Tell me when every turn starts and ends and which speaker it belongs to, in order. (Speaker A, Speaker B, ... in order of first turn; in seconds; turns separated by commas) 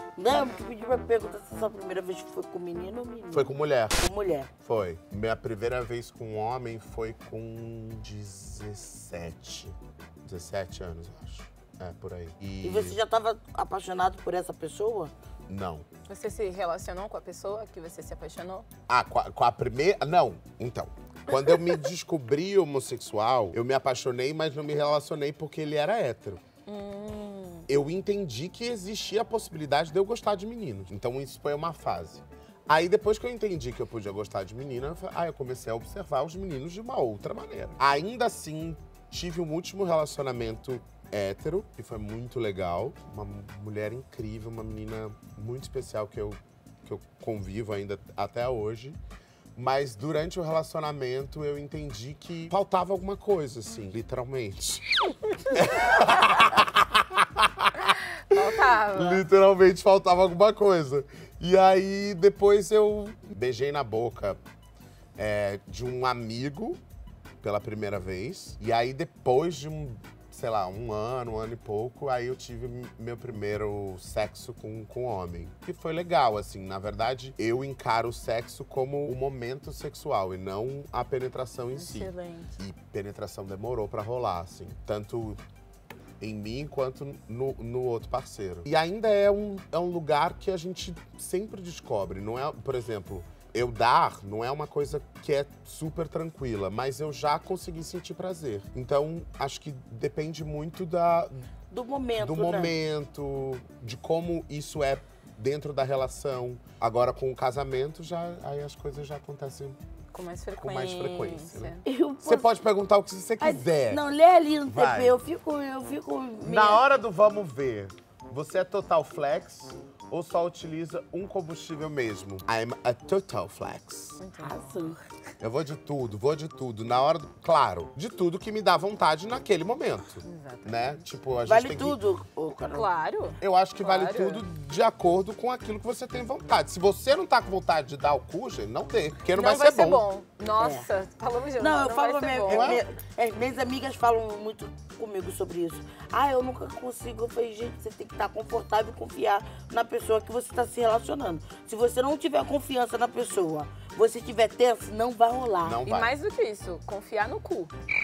Speaker A: 0.2-4.5, Speaker B: 3.3-4.0, Speaker B: 4.6-13.0, Speaker A: 12.6-15.1, Speaker B: 15.5-15.9, Speaker C: 16.1-18.7, Speaker B: 18.9-26.4, Speaker C: 26.7-27.7, Speaker B: 27.7-49.0, Speaker B: 49.5-54.9, Speaker B: 55.5-64.4, Speaker C: 58.3-59.2, Speaker B: 65.2-66.8, Speaker B: 67.4-85.4, Speaker C: 81.8-82.6, Speaker B: 86.2-101.5, Speaker A: 101.7-102.7, Speaker B: 102.2-109.8, Speaker C: 110.1-111.8, Speaker B: 110.6-114.0, Speaker A: 111.8-112.5, Speaker A: 113.4-116.8, Speaker B: 114.7-115.2, Speaker B: 116.4-124.2, Speaker C: 124.2-125.0, Speaker A: 124.4-125.0, Speaker B: 125.4-132.0, Speaker C: 130.2-131.1, Speaker A: 131.5-132.9, Speaker C: 132.7-134.4, Speaker B: 133.4-140.0, Speaker C: 139.3-142.8, Speaker A: 140.6-140.9, Speaker A: 141.6-155.8, Speaker B: 142.5-142.8, Speaker B: 155.6-156.1, Speaker C: 155.9-157.7